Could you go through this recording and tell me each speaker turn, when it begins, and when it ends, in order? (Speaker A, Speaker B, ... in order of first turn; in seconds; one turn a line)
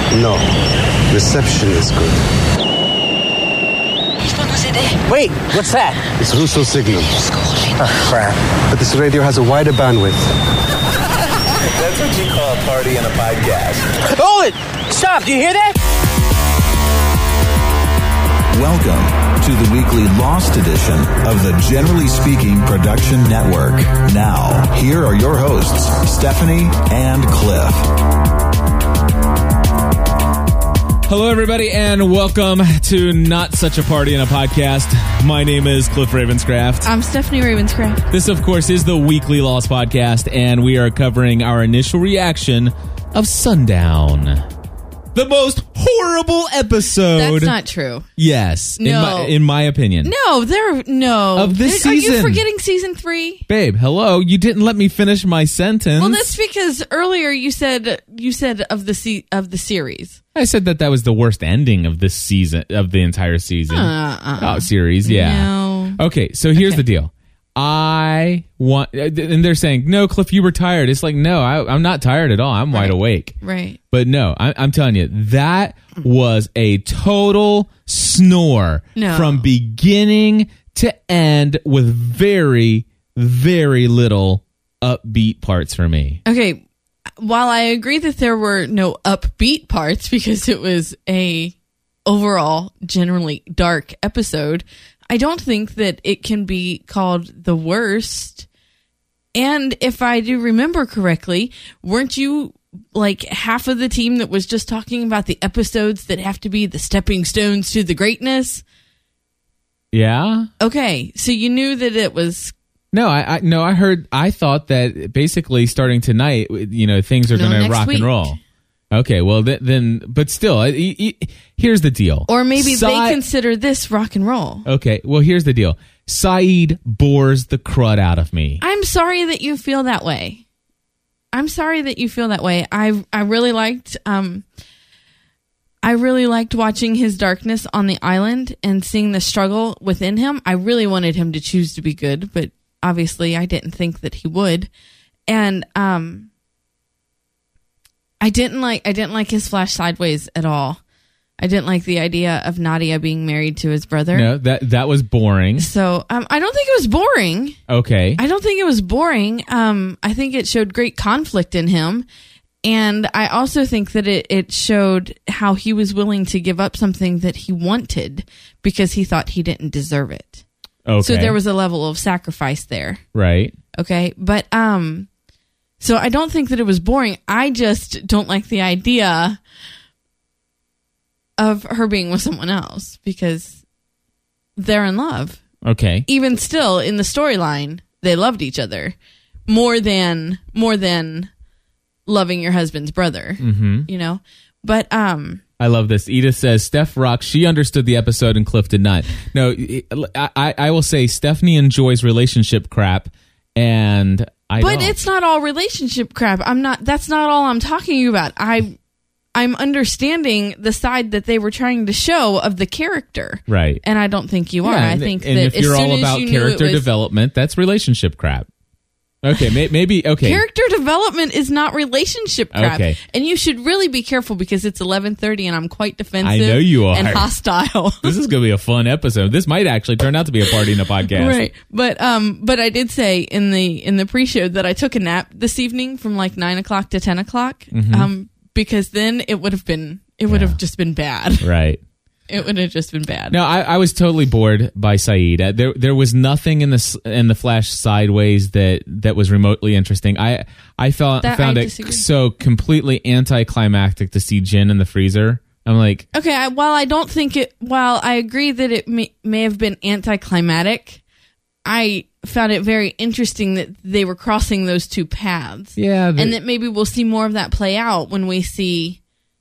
Speaker A: 0.1-0.5
Speaker A: 1.1-2.2
Speaker B: 4.9-6.0
Speaker A: 6.2-7.3
Speaker B: 7.8-8.4
Speaker A: 8.5-10.3
Speaker C: 11.8-14.0
Speaker B: 14.0-15.8
Speaker C: 18.5-27.9
Speaker D: 31.1-36.9
Speaker E: 36.8-38.1
Speaker D: 38.1-44.5
Speaker D: 45.1-47.5
Speaker E: 47.1-48.1
Speaker D: 48.2-50.1
Speaker E: 48.8-49.4
Speaker E: 50.0-53.5
Speaker D: 51.4-52.4
Speaker D: 53.5-56.2
Speaker E: 56.0-60.2
Speaker D: 60.4-73.3
Speaker E: 63.7-66.0
Speaker E: 66.6-66.8
Speaker E: 72.7-73.8
Speaker D: 73.9-86.2
Speaker E: 79.0-79.5
Speaker E: 86.3-86.6
Speaker E: 87.2-91.5
Speaker E: 92.1-98.5
Speaker E: 99.3-108.6
Speaker D: 109.9-110.5
Speaker E: 110.6-112.5
Speaker D: 112.9-118.4
Speaker E: 117.3-118.4
Speaker D: 118.9-123.2
Speaker E: 122.3-124.7
Speaker D: 124.7-128.6
Speaker E: 128.6-130.4
Speaker E: 131.3-134.4
Speaker E: 135.8-144.7
Speaker E: 145.3-146.3
Speaker E: 148.2-150.8
Speaker E: 151.4-154.3
Speaker D: 154.1-155.7
Speaker E: 155.6-157.6
Speaker D: 157.7-158.2
Speaker E: 158.2-162.1
Speaker E: 162.6-170.4
Speaker D: 170.9-171.4
Speaker E: 171.0-173.0
Speaker D: 173.2-173.6
Speaker E: 173.8-175.1
Speaker E: 175.8-179.4
Speaker E: 181.4-183.6
Speaker E: 184.6-185.4
Speaker D: 185.6-186.1
Speaker E: 186.1-188.9
Speaker E: 189.5-191.3
Speaker E: 192.1-195.4
Speaker D: 193.4-193.9
Speaker D: 195.6-204.9
Speaker E: 204.6-208.8
Speaker E: 209.3-216.9
Speaker D: 213.5-213.8
Speaker D: 214.6-218.5
Speaker D: 219.2-220.4
Speaker E: 220.2-228.2
Speaker D: 222.5-223.0
Speaker D: 226.2-227.3
Speaker D: 228.0-231.4
Speaker E: 231.2-241.5
Speaker D: 237.7-238.1
Speaker D: 240.3-240.6
Speaker D: 241.4-241.8
Speaker E: 242.3-243.4
Speaker D: 243.3-256.1
Speaker E: 251.2-252.0
Speaker E: 256.1-261.0
Speaker E: 261.6-269.0
Speaker D: 265.8-266.4